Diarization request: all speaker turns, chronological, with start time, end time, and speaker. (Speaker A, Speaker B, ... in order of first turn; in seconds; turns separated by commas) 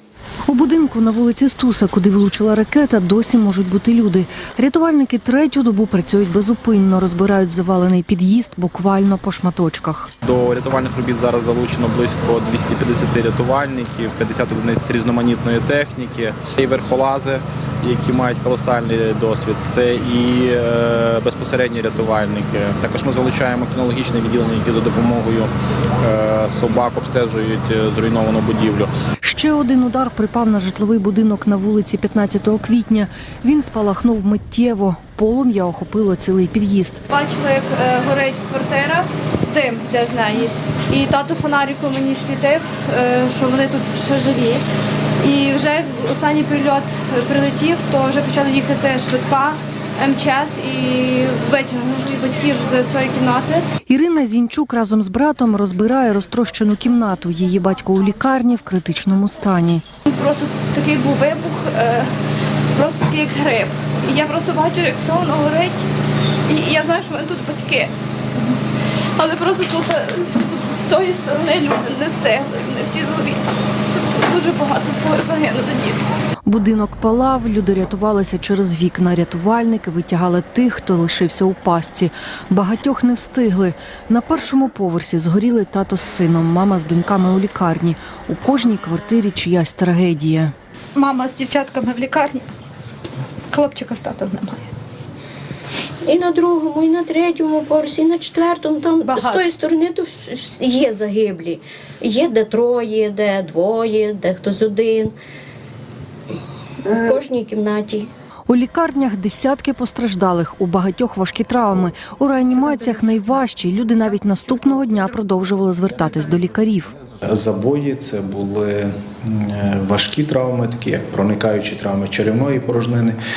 Speaker A: 0.5-10.1, Speaker B: 10.2-28.9, Speaker A: 29.2-37.0, Speaker C: 37.1-44.6, Speaker C: 45.2-53.7, Speaker A: 53.9-59.8, Speaker C: 60.1-62.1, Speaker C: 62.7-65.8, Speaker C: 66.5-67.9, Speaker C: 69.2-73.4, Speaker C: 74.1-76.0, Speaker A: 76.5-90.5, Speaker D: 91.0-92.5, Speaker D: 93.5-94.6, Speaker E: 96.0-105.1, Speaker D: 99.0-99.4, Speaker E: 106.9-108.1, Speaker A: 108.5-116.9, Speaker F: 117.3-123.2